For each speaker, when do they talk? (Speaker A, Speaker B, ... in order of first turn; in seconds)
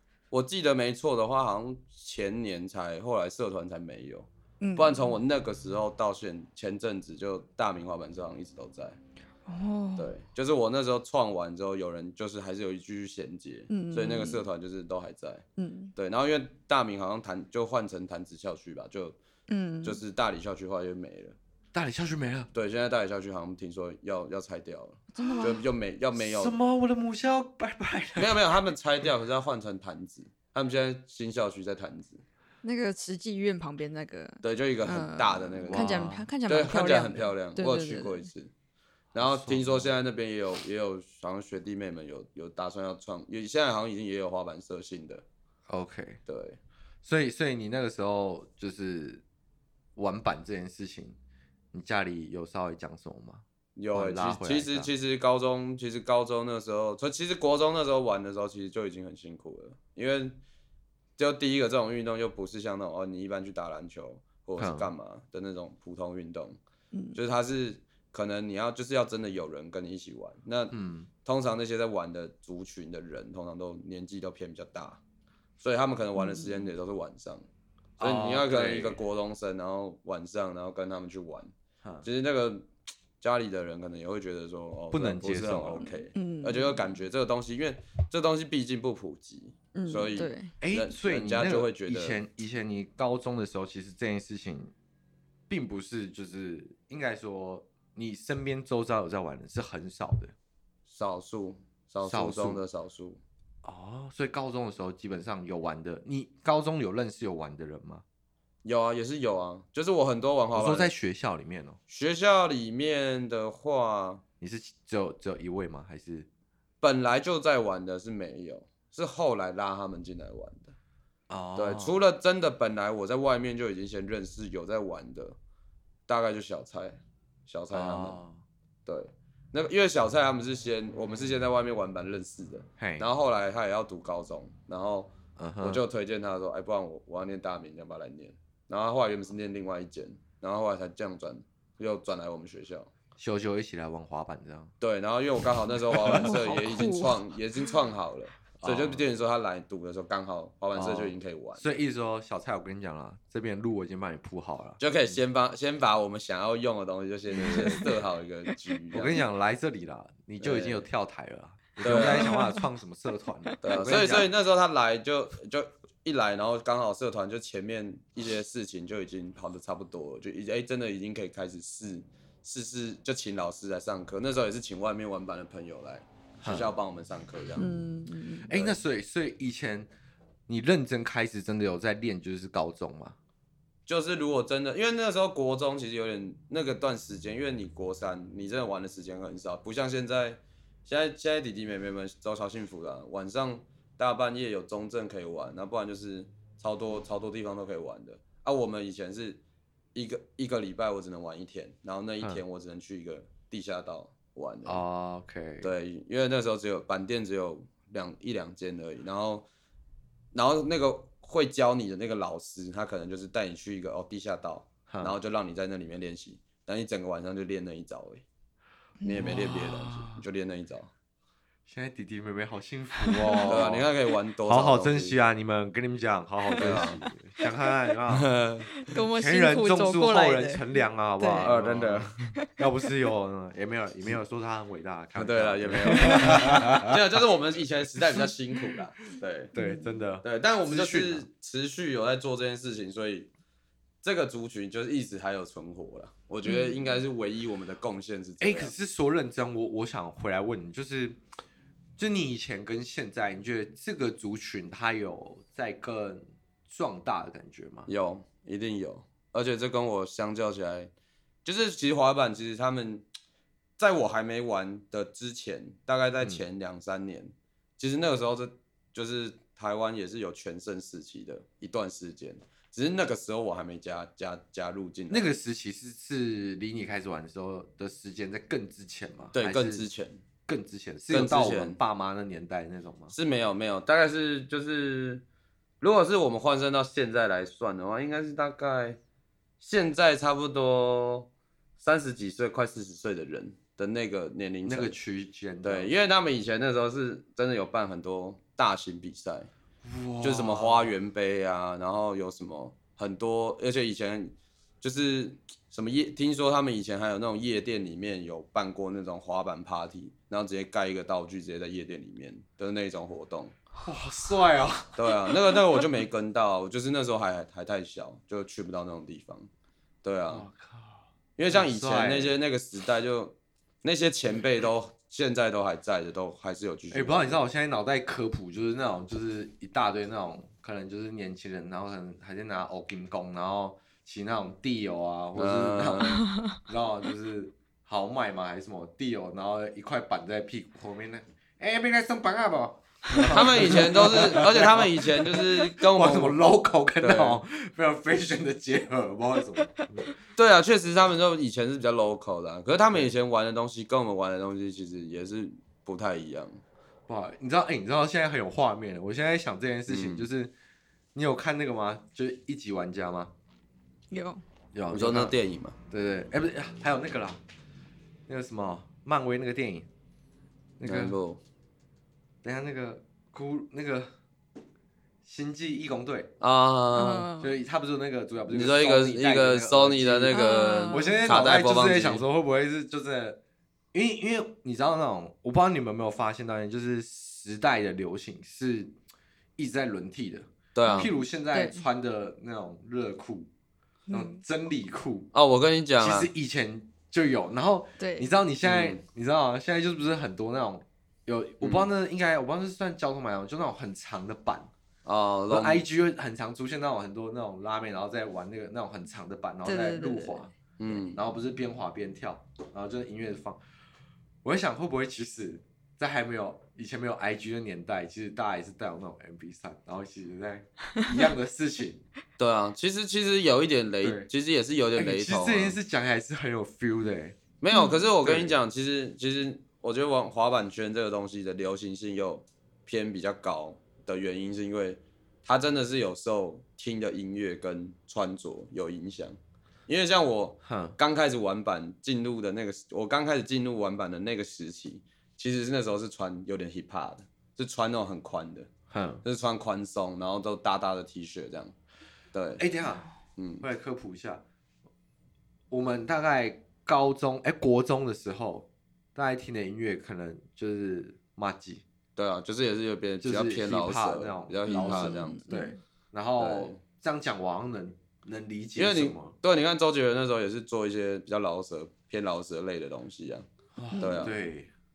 Speaker A: 0.3-9.0, 10.0-15.4, 15.9-19.2, 19.8-21.4, 22.5-26.6, 28.1-32.2, 34.4-38.5, 39.1-45.2, 46.3-46.6, 53.8-60.4, 61.2-66.6, 67.1-75.0, 75.6-77.5, 78.0-81.5, 82.0-82.7, 83.2-92.2, 100.9-103.2, 108.6-110.9, 111.9-114.2, 116.8-120.7, 121.5-125.4, 126.1-128.2, 128.8-142.9, 144.8-151.6, 154.8-159.2, 160.4-160.8, 161.8-162.5, 163.6-177.7, 183.9-199.4, 199.9-204.8, 205.6-209.5, 210.3-218.2, 219.0-220.9, 223.4-225.2, 226.6-227.0, 228.1-228.8, 231.4-232.2, 235.1-239.5, 240.2-243.3, 244.0-248.7, 257.9-260.9, 261.4-263.1, 263.8-275.3, 279.3-280.2, 281.1-281.8, 283.1-285.2, 285.8-289.0, 289.6-294.9, 295.6-299.5, 300.2-313.5, 314.9-319.5, 320.0-320.5, 321.4-327.4, 335.3-336.3, 343.2-346.4, 347.0-347.4, 350.4-356.6, 359.9-360.3, 364.9-365.8, 370.8-371.4, 376.4-377.3, 378.5-382.2, 390.7-391.1, 395.3-396.3, 398.6-399.0, 401.6-401.9, 405.0-405.8, 410.8-411.2, 422.4-425.8, 427.6-448.7, 449.2-451.7, 452.3-452.6, 453.4-453.6, 462.1-465.4, 466.4-466.8, 468.8-473.4, 474.0-474.3
Speaker B: 4.6-5.1, 9.5-10.1, 13.7-14.4, 15.6-15.9, 19.5-20.0, 25.1-25.6, 32.6-38.3, 76.2-76.5, 86.1-86.8, 89.7-90.5, 146.0-147.2, 162.2-162.6, 177.6-178.5, 219.0-219.5, 226.6-226.9, 228.8-231.5, 236.0-236.3, 239.5-240.0, 246.4-247.0, 336.1-336.5, 364.1-364.4, 376.9-377.6, 380.3-381.4, 390.8-391.8, 394.1-394.4, 398.0-398.3, 409.6-410.5, 427.7-428.0, 464.7-465.8, 473.9-474.2
Speaker C: 21.7-22.5, 25.2-25.5, 26.1-28.4, 35.7-36.3, 39.2-39.9, 45.7-46.2, 47.0-49.2, 50.0-51.2, 51.7-54.9, 64.6-64.9, 70.7-71.1, 78.0-79.0, 84.9-85.9, 90.6-94.7, 95.5-100.3, 102.0-102.6, 103.6-108.0, 110.5-111.8, 114.4-116.3, 121.3-122.0, 127.7-128.4, 132.8-133.1, 135.4-135.8, 143.2-144.7, 148.6-149.0, 150.7-154.8, 157.4-157.9, 158.9-164.3, 176.4-176.7, 178.4-179.9, 180.5-183.2, 204.6-205.7, 214.9-215.1, 219.2-220.2, 221.7-223.9, 224.4-228.3, 229.1-236.9, 239.5-241.3, 248.4-251.2, 252.0-257.9, 275.1-279.8, 280.5-283.1, 294.6-295.9, 299.8-300.9, 313.8-315.3, 320.3-322.3, 326.9-350.1, 357.1-360.5, 361.1-363.3, 364.7-365.3, 365.9-367.4, 368.3-369.9, 370.8-371.2, 372.4-374.1, 375.2-376.3, 377.4-383.4, 383.9-388.9, 389.6-393.5, 394.1-395.3, 396.0-404.7, 405.5-410.5, 411.1-413.6, 414.4-422.0, 424.0-424.3, 424.9-427.4, 428.2-428.6, 440.6-441.0, 448.9-449.2, 452.6-453.1, 453.6-454.4, 455.7-461.8, 463.2-469.3, 473.8-474.7